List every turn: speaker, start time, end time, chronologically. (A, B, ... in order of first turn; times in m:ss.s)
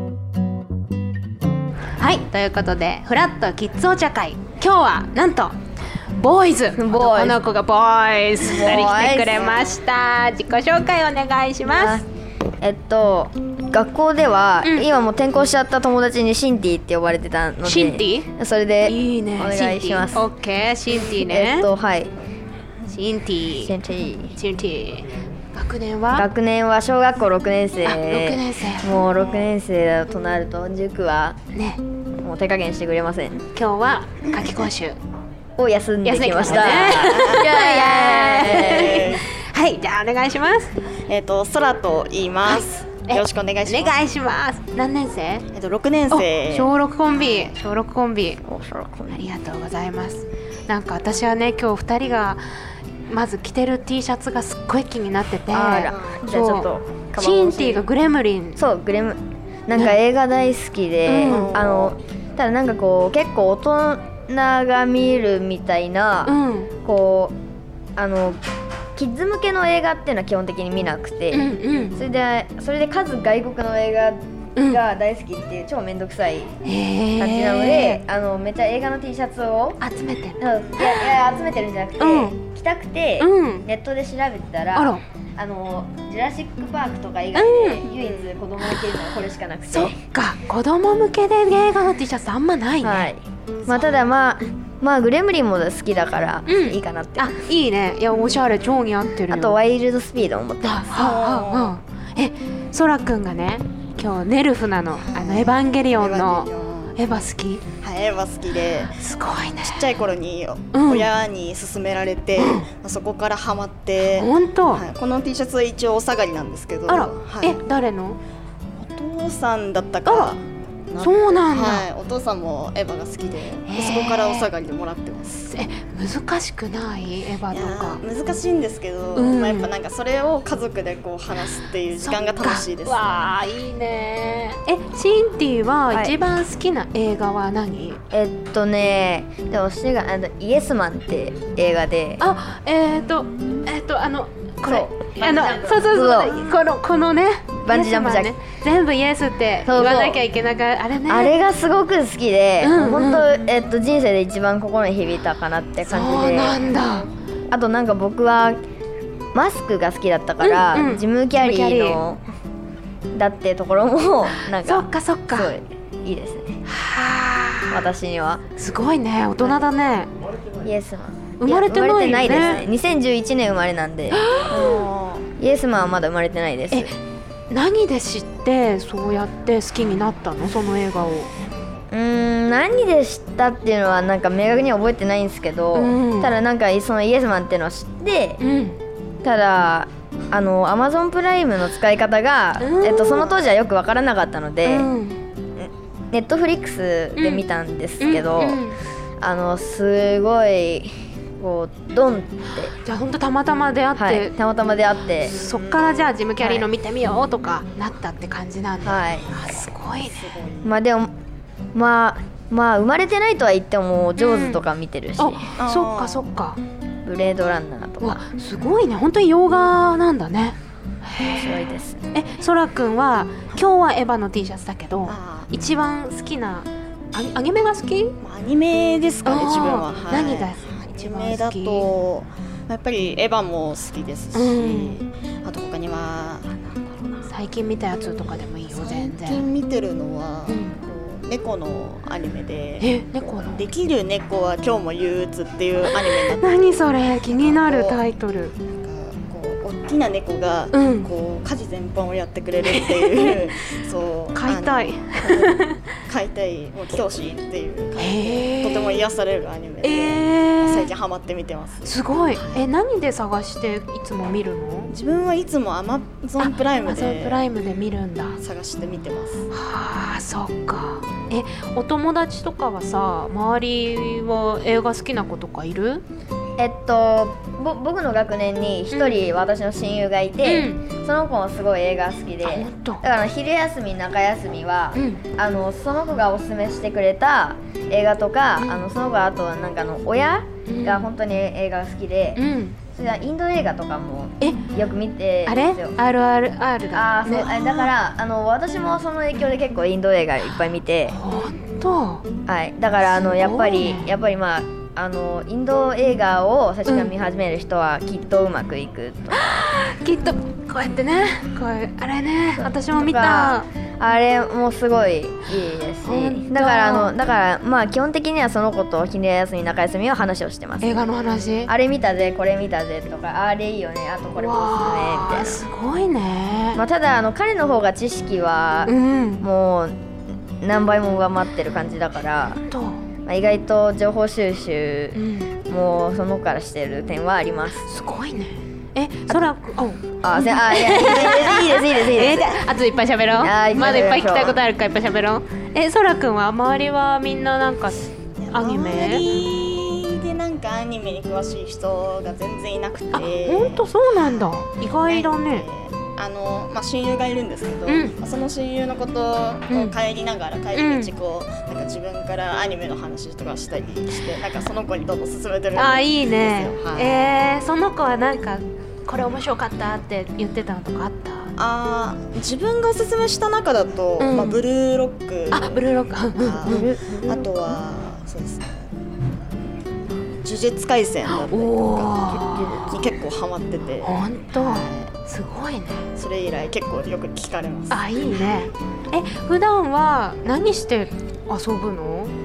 0:02.0-0:05.6 A
0:06.1-0:12.0 A
0:06.7-0:07.4 B
0:08.4-0:09.6 B
0:11.6-0:12.0 B
0:12.6-0:20.3 B
0:17.6-0:18.3 A
0:18.8-0:21.7 A
0:21.0-0:22.1 B
0:22.9-0:23.7 A
0:23.6-0:24.3 B
0:24.3-0:26.3 A
0:26.1-0:31.4 B
0:27.8-0:28.9 A
0:31.5-0:31.8 A
0:32.2-0:33.4 B
0:33.5-0:35.0 A
0:35.6-0:39.1 B
0:36.0-0:40.7 A
0:36.4-0:37.5 C
0:38.7-0:39.2 C
0:41.1-0:44.0 C
0:42.4-0:45.4 A
0:45.5-0:47.5 C
0:46.1-0:48.4 A
0:48.4-0:49.2 B
0:49.1-0:52.4 A
0:53.1-0:58.6 A
0:55.5-0:57.8 B
0:55.9-0:56.2 C
0:58.6-1:07.4 B
1:01.0-1:01.5 A
1:01.2-1:02.0 C
1:06.2-1:06.7 A
1:08.0-1:08.4 B
1:08.9-1:16.5 B
1:11.3-1:12.0 A
1:14.6-1:14.8 A
1:16.6-1:18.0 A
1:17.2-1:19.8 B
1:19.8-1:21.2 A
1:20.4-1:30.0 B
1:22.0-1:22.4 A
1:23.2-1:23.6 A
1:24.7-1:25.0 A
1:27.3-1:27.8 A
1:27.9-1:28.3 C
1:29.7-1:33.1 A
1:32.8-1:37.4 B
1:33.6-1:34.0 C
1:36.5-1:39.6 A
1:39.3-1:40.9 B
1:40.6-1:47.6 A
1:40.9-1:41.8 C
1:45.0-1:47.0 C
1:47.8-1:49.0 C
1:49.0-1:49.8 A
1:49.6-1:57.6 C
1:50.7-1:51.1 A
1:52.4-1:52.7 A
1:54.0-1:54.8 A
1:56.9-1:58.2 A
1:58.8-2:05.5 C
2:00.0-2:00.3 A
2:01.0-2:01.9 A
2:03.6-2:04.5 A
2:05.3-2:08.0 A
2:07.5-2:13.0 C
2:09.2-2:09.7 A
2:12.0-2:18.0 A
2:18.1-2:22.2 B
2:22.2-2:31.3 A
2:24.6-2:26.5 B
2:27.6-2:28.3 B
2:29.6-2:30.2 B
2:31.1-2:36.7 B
2:32.6-2:33.3 A
2:35.8-2:37.1 A
2:37.5-2:38.6 B
2:39.3-2:42.2 B
2:40.4-2:42.0 A
2:43.1-2:46.6 B
2:44.5-2:45.5 A
2:46.6-2:47.8 A
2:47.7-2:48.4 B
2:48.6-2:50.1 A
2:49.4-2:49.7 B
2:50.6-2:54.7 B
2:51.4-2:52.6 A
2:54.1-2:54.8 A
2:54.5-2:55.3 C
2:55.4-2:56.9 B
2:56.7-2:57.0 A
2:57.5-3:01.3 A
3:01.9-3:08.4 B
3:05.7-3:06.3 A
3:08.4-3:08.8 A
3:09.2-3:14.9 B
3:12.6-3:13.4 A
3:14.6-3:15.2 A
3:15.6-3:18.6 B
3:17.2-3:17.4 A
3:18.0-3:18.8 A
3:19.2-3:22.7 B
3:22.8-3:24.3 A
3:24.0-3:25.3 B
3:25.2-3:30.4 A
3:25.3-3:25.9 C
3:26.4-3:26.6 B
3:28.8-3:29.4 B
3:30.0-3:30.7 C
3:30.6-3:31.1 B
3:31.7-3:35.5 B
3:34.2-3:34.6 A
3:35.2-3:36.6 A
3:35.6-3:36.2 C
3:37.0-3:38.2 B
3:38.0-3:48.2 A
3:41.4-3:42.0 B
3:45.1-3:45.5 C
3:48.2-3:57.3 C
3:49.2-3:51.9 A
3:54.3-3:55.0 A
3:57.3-3:59.4 A
3:58.7-4:08.0 C
4:00.5-4:00.8 A
4:02.8-4:03.7 A
4:05.9-4:08.5 A
4:08.7-4:22.6 C
4:10.7-4:11.1 A
4:12.6-4:13.4 A
4:14.3-4:15.8 A
4:18.0-4:19.0 A
4:19.8-4:20.9 A
4:21.8-4:24.9 A
4:24.9-4:27.4 C
4:26.4-4:28.4 A
4:28.4-4:29.5 C
4:29.5-4:36.0 A
4:36.6-4:56.0 B
4:38.9-4:39.2 A
4:40.4-4:40.8 A
4:42.4-4:43.0 A
4:45.0-4:45.2 A
4:50.6-4:51.0 A
4:52.4-4:52.8 A
4:55.4-4:57.9 A
4:56.9-5:01.2 B
5:01.1-5:02.2 A
5:02.4-5:09.6 B
5:03.0-5:04.1 A
5:06.8-5:07.1 A
5:09.3-5:13.7 A
5:12.6-5:21.0 B
5:16.0-5:17.1 A
5:20.8-5:21.7 A
5:21.6-5:25.6 B
5:24.4-5:26.8 A
5:26.7-5:30.0 B
5:28.8-5:29.4 A
5:30.6-5:32.7 B
5:32.7-5:33.0 A
5:33.2-5:37.9 B
5:35.1-5:35.5 A
5:37.9-5:49.3 A
5:40.2-5:42.6 B
5:40.8-5:42.4 C
5:43.4-5:44.6 B
5:48.4-6:07.3 C
5:53.1-5:55.6 A
5:57.9-5:58.1 A
5:59.7-5:59.9 A
6:00.7-6:01.1 A
6:05.8-6:11.5 A
6:11.6-6:18.9 C
6:14.2-6:14.6 A
6:15.5-6:16.9 A
6:16.6-6:17.6 B
6:20.4-6:25.1 C
6:21.2-6:23.0 A
6:22.4-6:23.0 B
6:24.0-6:26.1 A
6:26.2-6:28.1 C
6:27.9-6:32.3 A